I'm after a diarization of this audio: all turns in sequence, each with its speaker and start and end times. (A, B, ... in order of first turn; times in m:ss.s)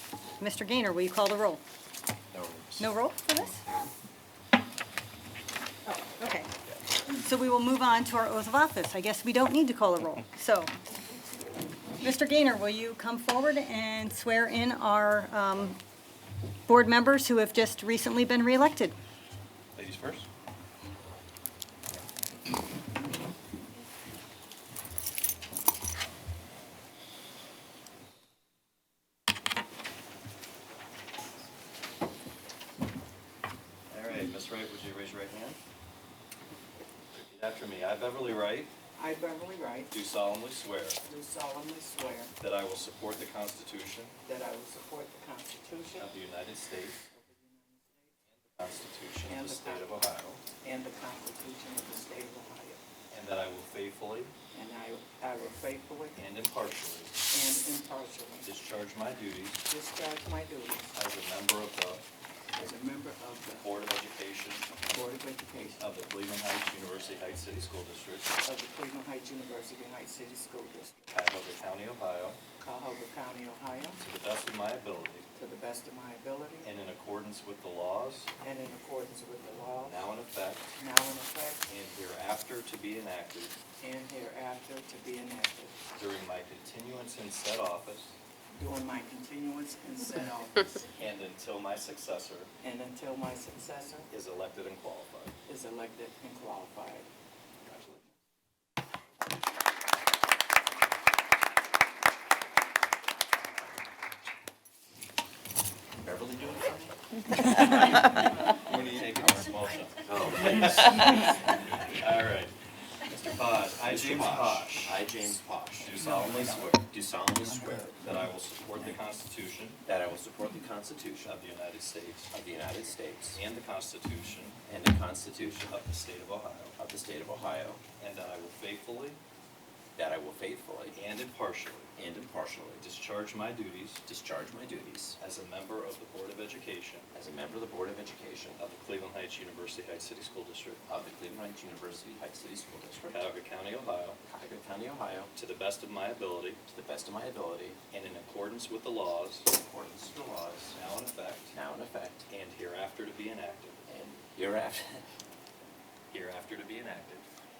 0:00.4-0:01.6 A
0:02.3-0:02.9 B
0:02.8-0:03.6 A
0:05.8-0:06.5 A
0:07.1-0:10.7 A
0:12.0-0:15.8 A
0:16.7-0:18.9 A
0:19.7-0:20.3 C
0:33.9-0:35.6 C
0:37.2-0:38.7 C
0:39.0-0:39.9 D
0:39.9-0:41.0 C
0:41.0-0:42.3 D
0:42.4-0:44.2 C
0:44.2-0:46.1 D
0:45.9-0:47.0 C
0:47.1-0:48.1 D
0:48.4-0:50.4 C
0:49.2-0:49.9 D
0:50.6-0:52.8 D
0:53.1-0:54.3 C
0:54.5-0:56.2 D
0:56.1-0:57.2 C
0:57.3-0:58.5 D
0:58.4-0:59.6 C
0:59.7-1:00.9 D
1:00.9-1:02.0 C
1:02.6-1:03.7 D
1:03.6-1:04.8 C
1:04.8-1:05.8 D
1:05.8-1:08.4 C
1:08.4-1:11.0 D
1:11.1-1:12.4 C
1:12.6-1:14.0 D
1:14.0-1:15.3 C
1:15.4-1:16.7 D
1:16.6-1:18.3 C
1:18.4-1:20.0 D
1:19.8-1:20.7 C
1:20.8-1:21.7 D
1:21.7-1:23.6 C
1:23.8-1:25.8 D
1:25.9-1:28.2 C
1:28.5-1:30.8 D
1:30.8-1:32.5 C
1:32.6-1:34.1 D
1:34.1-1:35.3 C
1:35.5-1:37.1 D
1:37.7-1:38.0 C
1:46.0-1:47.0 B
1:47.5-1:48.2 B
1:48.4-1:52.5 C
1:50.0-1:51.4 B
1:53.1-1:55.1 C
1:53.7-1:57.9 B
1:55.8-1:56.9 C
1:57.7-1:59.8 C
1:59.8-2:01.4 B
2:01.2-2:02.3 C
2:02.3-2:03.4 B
2:03.3-2:04.6 C
2:04.6-2:05.6 B
2:05.4-2:06.7 C
2:06.8-2:07.8 B
2:07.9-2:09.2 C
2:10.0-2:11.0 B
2:10.9-2:11.9 C
2:12.0-2:12.9 B
2:12.8-2:14.0 C
2:14.0-2:15.2 B
2:15.2-2:17.1 C
2:17.1-2:18.6 B
2:18.6-2:20.8 C
2:20.9-2:23.3 B
2:23.1-2:24.2 C
2:24.2-2:25.3 B
2:25.3-2:26.6 C
2:26.6-2:27.8 B
2:27.9-2:29.5 C
2:29.5-2:30.8 B
2:30.7-2:31.5 C
2:31.5-2:32.2 B
2:32.3-2:33.8 C
2:33.9-2:35.0 B
2:36.1-2:37.2 C